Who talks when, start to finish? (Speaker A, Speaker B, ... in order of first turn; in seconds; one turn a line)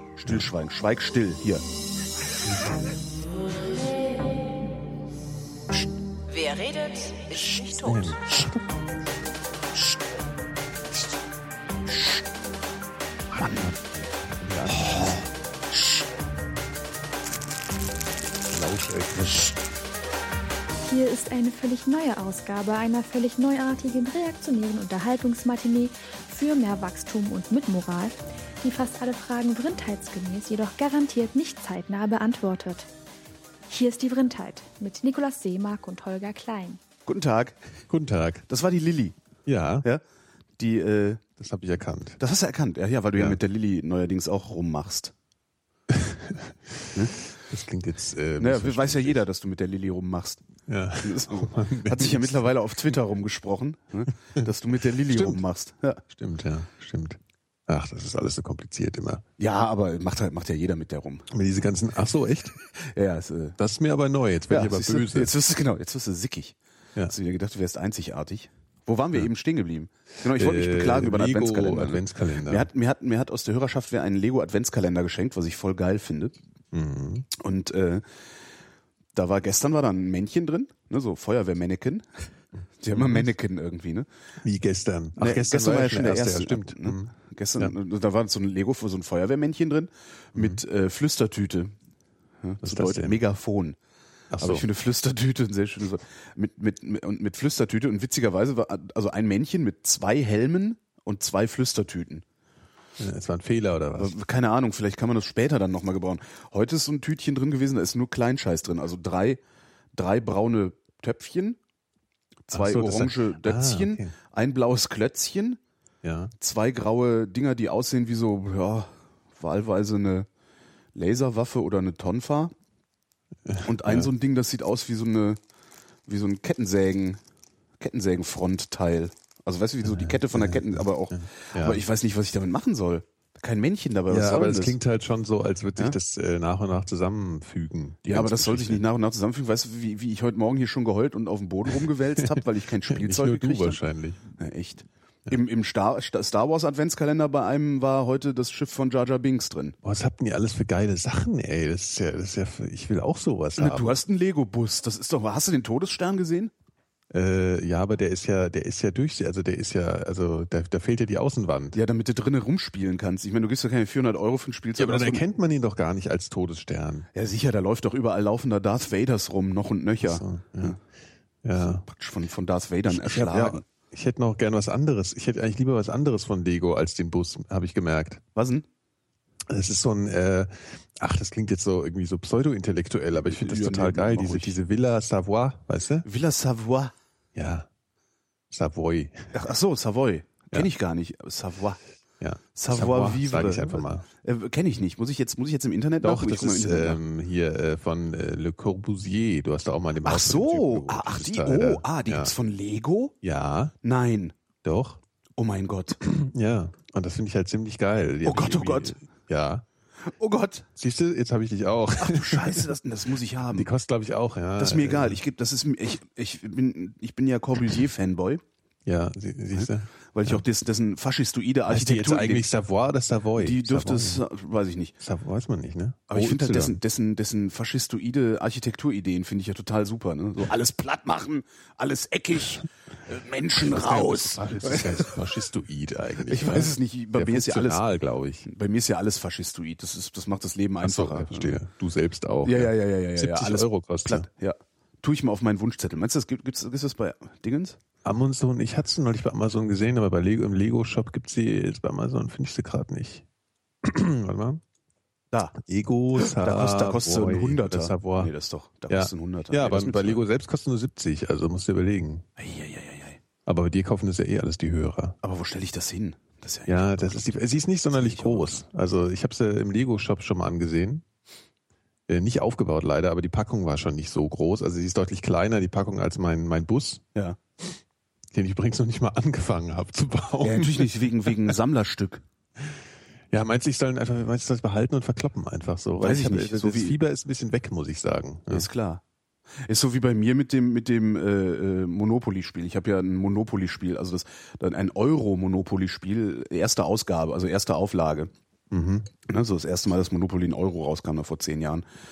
Speaker A: 0.2-1.6
Speaker B: 2.5-2.8
Speaker C: 6.3-8.2
Speaker B: 7.8-8.8
Speaker A: 11.9-12.2
Speaker A: 13.3-13.8
Speaker B: 13.4-15.2
Speaker A: 14.5-16.0
Speaker B: 18.5-19.5
Speaker D: 20.8-32.9
Speaker D: 33.7-36.8
Speaker A: 37.1-37.6
Speaker B: 37.9-38.5
Speaker A: 38.5-39.2
Speaker B: 39.5-39.9
Speaker A: 40.6-41.2
Speaker B: 41.4-42.2
Speaker A: 42.2-45.1
Speaker B: 45.9-46.9
Speaker B: 47.4-49.2
Speaker A: 48.4-50.4
Speaker B: 50.7-52.5
Speaker A: 51.0-56.0
Speaker B: 55.0-55.4
Speaker B: 56.1-59.2
Speaker A: 59.4-61.3
Speaker B: 61.3-62.5
Speaker A: 62.8-63.6
Speaker B: 63.6-65.3
Speaker A: 64.5-66.6
Speaker A: 67.1-76.4
Speaker B: 70.2-72.7
Speaker B: 76.7-77.3
Speaker A: 77.3-78.0
Speaker A: 79.2-82.3
Speaker A: 82.8-84.1
Speaker B: 84.4-87.8
Speaker A: 85.2-91.7
Speaker B: 90.3-90.6
Speaker A: 92.4-93.8
Speaker B: 92.6-93.2
Speaker B: 94.3-94.7
Speaker A: 94.4-102.2
Speaker B: 103.0-104.2
Speaker A: 104.0-109.4
Speaker A: 110.0-111.6
Speaker A: 112.5-115.6
Speaker B: 112.5-114.1
Speaker B: 116.0-116.3
Speaker A: 116.4-120.3
Speaker A: 121.0-122.5
Speaker B: 123.5-124.1
Speaker A: 123.6-125.4
Speaker A: 126.1-127.2
Speaker A: 127.8-134.8
Speaker B: 129.9-131.8
Speaker B: 134.1-138.8
Speaker A: 138.1-143.8
Speaker B: 142.2-144.2
Speaker A: 144.4-149.8
Speaker B: 149.8-154.0
Speaker A: 153.6-156.5
Speaker B: 157.1-161.8
Speaker A: 161.7-165.2
Speaker B: 164.8-167.1
Speaker A: 167.1-170.8
Speaker B: 170.0-170.8
Speaker B: 171.4-171.8
Speaker A: 171.6-173.6
Speaker B: 172.9-178.2
Speaker A: 178.3-178.7
Speaker B: 179.5-186.1
Speaker A: 183.2-184.6
Speaker A: 186.1-186.9
Speaker B: 187.3-187.7
Speaker B: 188.5-189.3
Speaker A: 189.3-191.8
Speaker B: 192.2-194.1
Speaker A: 192.6-197.0
Speaker B: 196.0-202.3
Speaker A: 200.1-203.2
Speaker B: 203.2-203.7
Speaker A: 203.8-204.3
Speaker B: 204.6-205.0
Speaker A: 205.4-206.0
Speaker B: 206.0-209.7
Speaker A: 208.2-209.0
Speaker A: 210.1-210.7
Speaker B: 210.8-212.7
Speaker A: 212.0-213.7
Speaker B: 213.5-215.2
Speaker A: 214.6-218.4
Speaker B: 218.8-220.4
Speaker A: 219.5-222.5
Speaker B: 221.7-224.2
Speaker A: 223.4-224.9
Speaker B: 225.0-226.8
Speaker A: 226.1-235.1
Speaker B: 233.6-238.5
Speaker A: 236.3-237.8
Speaker A: 238.4-241.6
Speaker B: 240.8-244.3
Speaker A: 242.4-247.8
Speaker B: 248.1-253.2
Speaker B: 253.8-254.6
Speaker B: 255.6-258.3
Speaker A: 256.2-260.2
Speaker B: 258.9-262.2
Speaker A: 262.4-263.2
Speaker B: 263.5-265.2
Speaker A: 265.2-267.3
Speaker B: 266.7-271.0
Speaker A: 267.9-268.6
Speaker B: 272.1-277.0
Speaker B: 278.3-281.5
Speaker A: 280.4-282.2
Speaker B: 283.3-288.7
Speaker A: 286.0-287.0
Speaker A: 288.5-289.0
Speaker A: 289.6-298.3
Speaker B: 298.7-299.1
Speaker A: 299.3-301.9